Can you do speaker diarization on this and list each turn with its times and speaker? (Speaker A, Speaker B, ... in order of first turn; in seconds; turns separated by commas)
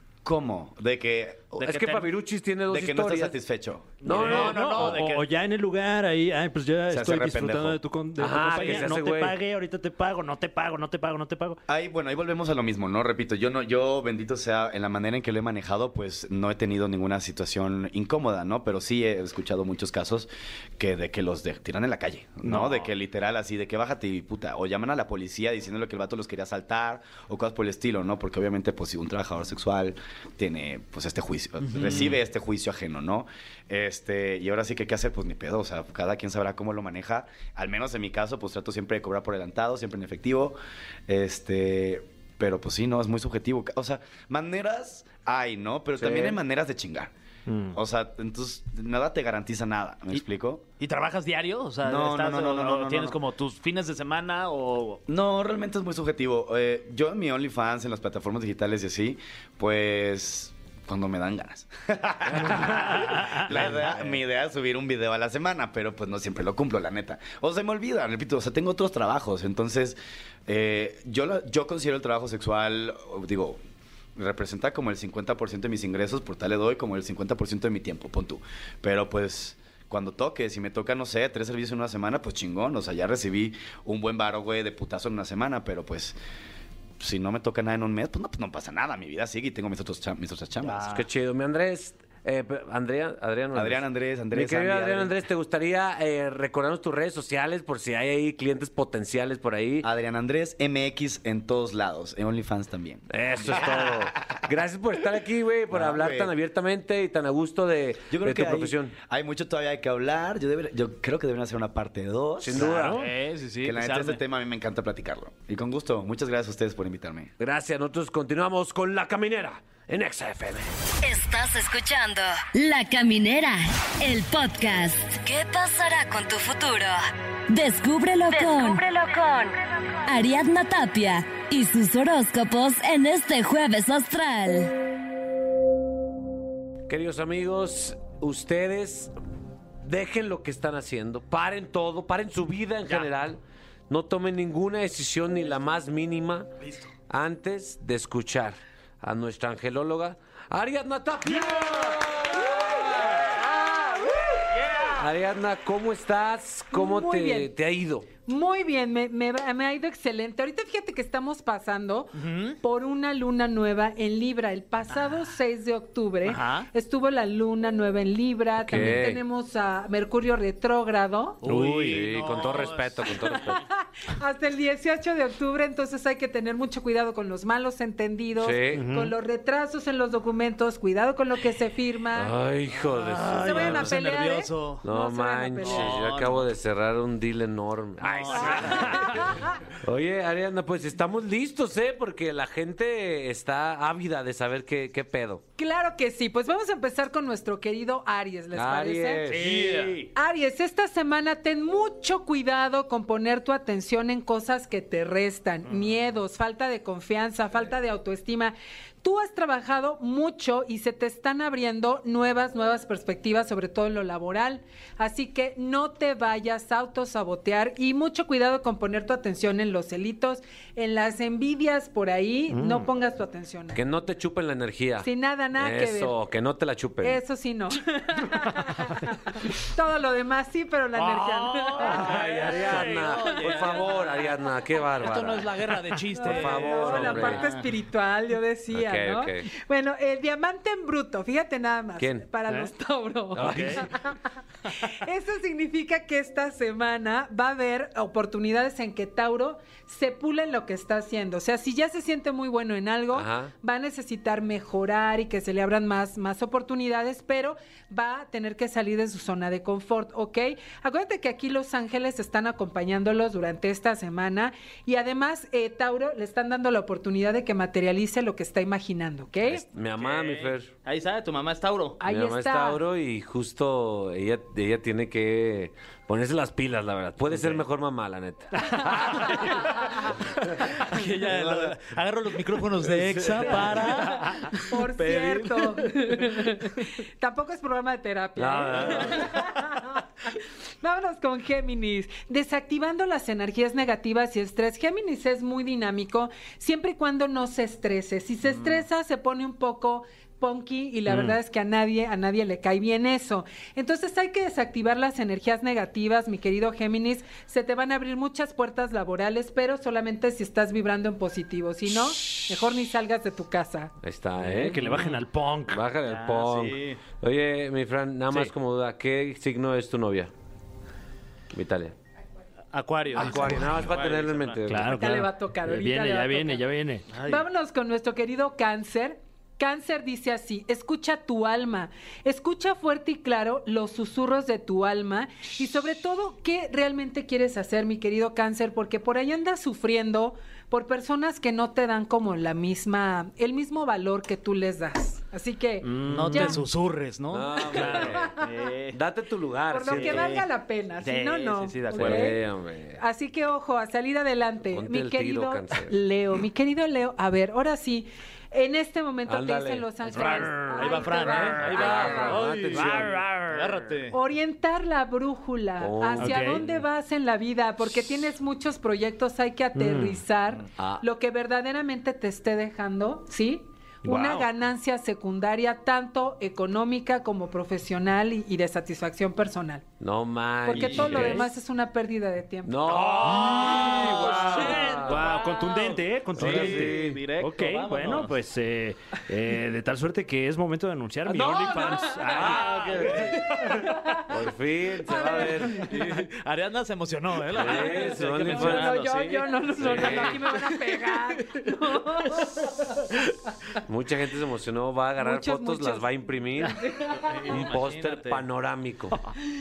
Speaker A: 0.2-1.6, Speaker B: 1.6-2.1, Speaker C: 1.6-3.4, Speaker A: 2.7-4.2, Speaker B: 4.0-5.3, Speaker C: 4.0-5.0, Speaker D: 4.1-11.6, Speaker A: 6.9-7.8, Speaker C: 8.2-9.4, Speaker A: 11.7-40.6, Speaker B: 22.5-22.8, Speaker B: 31.6-32.2, Speaker A: 41.1-47.1, Speaker B: 46.0-46.3, Speaker D: 47.5-47.8, Speaker A: 47.7-50.6, Speaker B: 50.8-55.0, Speaker A: 51.8-53.2, Speaker A: 55.1-73.6, Speaker B: 63.3-63.8, Speaker A: 74.2-86.2, Speaker A: 87.0-90.9, Speaker B: 90.6-91.0, Speaker C: 90.9-99.9, Speaker A: 93.5-95.1, Speaker A: 99.8-104.4, Speaker C: 103.1-108.9, Speaker A: 105.7-106.3, Speaker A: 108.1-112.6, Speaker C: 112.4-113.0, Speaker D: 112.6-113.1, Speaker B: 112.9-114.2, Speaker A: 113.6-117.3, Speaker C: 117.4-120.7, Speaker E: 121.0-134.7, Speaker C: 136.9-139.1, Speaker C: 139.8-146.5, Speaker C: 147.1-153.9, Speaker B: 151.3-151.7, Speaker B: 154.6-155.0, Speaker C: 154.9-158.1, Speaker F: 156.7-157.5, Speaker F: 158.2-171.4, Speaker B: 162.2-162.6, Speaker B: 166.2-166.7, Speaker D: 168.7-169.0, Speaker C: 168.7-169.2, Speaker B: 171.4-173.2, Speaker D: 171.4-172.0, Speaker C: 171.9-173.6, Speaker F: 173.4-182.3, Speaker C: 178.4-178.9, Speaker D: 178.7-179.1, Speaker C: 182.1-183.9, Speaker B: 182.7-184.8, Speaker F: 183.4-186.0, Speaker C: 184.8-189.2, Speaker B: 185.6-186.5, Speaker B: 188.0-189.2, Speaker F: 188.3-189.6, Speaker C: 189.8-195.4, Speaker F: 195.6-199.3, Speaker C: 198.5-199.9, Speaker B: 199.3-200.1, Speaker F: 200.1-223.8, Speaker D: 222.5-222.9, Speaker C: 223.7-227.2, Speaker F: 225.0-226.1, Speaker F: 227.0-232.1, Speaker B: 230.9-234.3, Speaker C: 231.8-235.5, Speaker B: 234.9-237.7, Speaker F: 236.2-244.2, Speaker C: 236.2-237.4, Speaker C: 238.7-239.5, Speaker C: 242.0-242.2, Speaker C: 243.4-243.9, Speaker D: 243.4-243.7, Speaker B: 243.4-243.7, Speaker F: 244.8-269.6, Speaker C: 253.1-253.5, Speaker C: 269.4-270.7, Speaker B: 270.0-272.0, Speaker F: 272.0-272.8, Speaker C: 272.1-279.7, Speaker B: 277.3-277.6, Speaker B: 279.2-279.9, Speaker B: 280.6-285.9, Speaker C: 282.9-283.9, Speaker F: 284.7-290.0, Speaker C: 288.4-289.3, Speaker B: 288.8-289.2, Speaker F: 290.8-313.9, Speaker D: 301.1-301.4, Speaker C: 314.0-314.9, Speaker D: 314.4-315.8, Speaker B: 314.9-315.2, Speaker C: 315.7-320.3, Speaker B: 316.1-317.0, Speaker C: 321.5-321.9, Speaker B: 322.7-324.6, Speaker C: 323.1-325.1, Speaker D: 324.7-327.1, Speaker F: 324.9-326.6, Speaker B: 327.1-327.4, Speaker F: 327.2-346.6, Speaker D: 345.8-346.6, Speaker B: 346.0-349.0, Speaker C: 347.3-348.3, Speaker F: 347.8-348.5, Speaker C: 348.9-350.3, Speaker F: 349.7-352.4, Speaker B: 349.9-350.5, Speaker B: 351.0-352.3, Speaker C: 351.9-353.0, Speaker F: 353.0-362.4, Speaker C: 354.7-355.9, Speaker C: 359.3-360.4, Speaker B: 360.1-364.1, Speaker D: 360.2-360.8, Speaker C: 361.2-363.2, Speaker D: 362.8-363.5, Speaker F: 364.1-379.8, Speaker C: 365.8-366.6, Speaker D: 366.2-366.6, Speaker D: 369.8-370.2, Speaker C: 370.8-371.0, Speaker D: 374.1-374.5, Speaker C: 380.0-381.5, Speaker F: 380.6-383.1, Speaker B: 380.7-381.4, Speaker D: 381.0-381.4, Speaker C: 382.6-385.2, Speaker D: 382.9-392.9, Speaker B: 383.2-388.3, Speaker C: 386.4-387.2, Speaker C: 391.3-395.9, Speaker B: 392.3-393.6, Speaker F: 395.1-395.9, Speaker B: 395.8-401.7, Speaker C: 397.5-399.0, Speaker F: 398.5-402.4, Speaker C: 399.8-400.4, Speaker C: 403.9-406.8, Speaker F: 405.2-406.1, Speaker F: 406.6-407.4, Speaker B: 407.1-408.4, Speaker C: 407.5-409.2